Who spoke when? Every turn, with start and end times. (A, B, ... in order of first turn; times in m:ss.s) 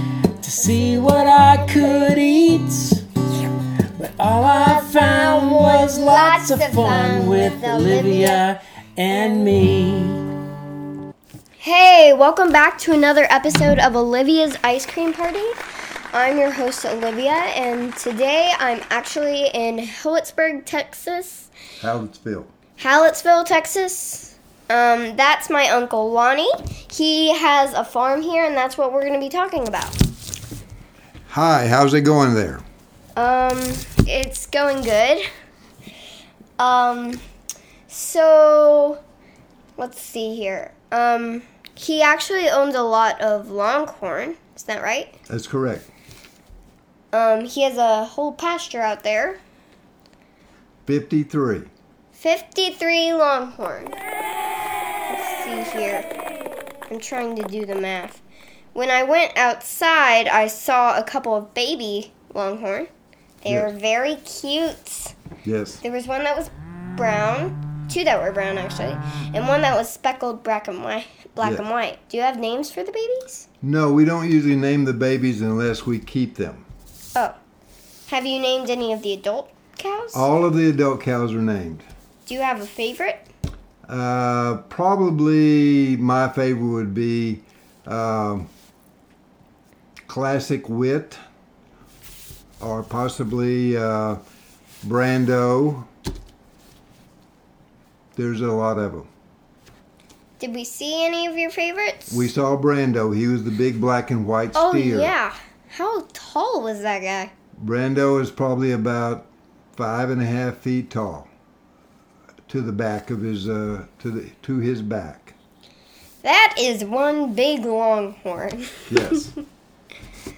0:00.4-0:03.0 A
0:03.9-0:10.2 A
0:04.5-0:08.4 B
0:11.6-0:15.6 B
0:16.1-0:21.5 B
0:21.8-0:22.5 C
0:22.8-0:30.0 B
0:31.3-0:32.6 C
0:33.2-0:35.2 B
0:36.6-0:37.2 B
0:37.9-0:39.0 B
0:39.8-0:45.2 B
0:45.3-0:45.9 C
0:47.1-0:49.4 B
0:50.8-0:51.7 C
0:52.1-0:54.0 B
0:55.1-0:56.1 B
0:56.9-0:58.2 B
0:58.7-1:02.9 B
1:03.4-1:05.2 B
1:05.4-1:05.8 C
1:05.8-1:13.5 B
1:11.4-1:11.6 C
1:13.6-1:16.6 C
1:18.1-1:20.3 B
1:20.1-1:21.9 C
1:22.2-1:23.2 B
1:23.9-1:28.5 C
1:30.1-1:31.2 C
1:32.6-1:34.2 C
1:34.8-1:35.9 C
1:38.2-1:39.1 C
1:40.4-1:42.3 B
1:42.1-1:45.1 C
1:44.5-1:47.3 B
1:47.6-1:51.3 C
1:52.5-1:55.3 C
1:56.2-1:59.3 B
1:58.9-1:59.3 C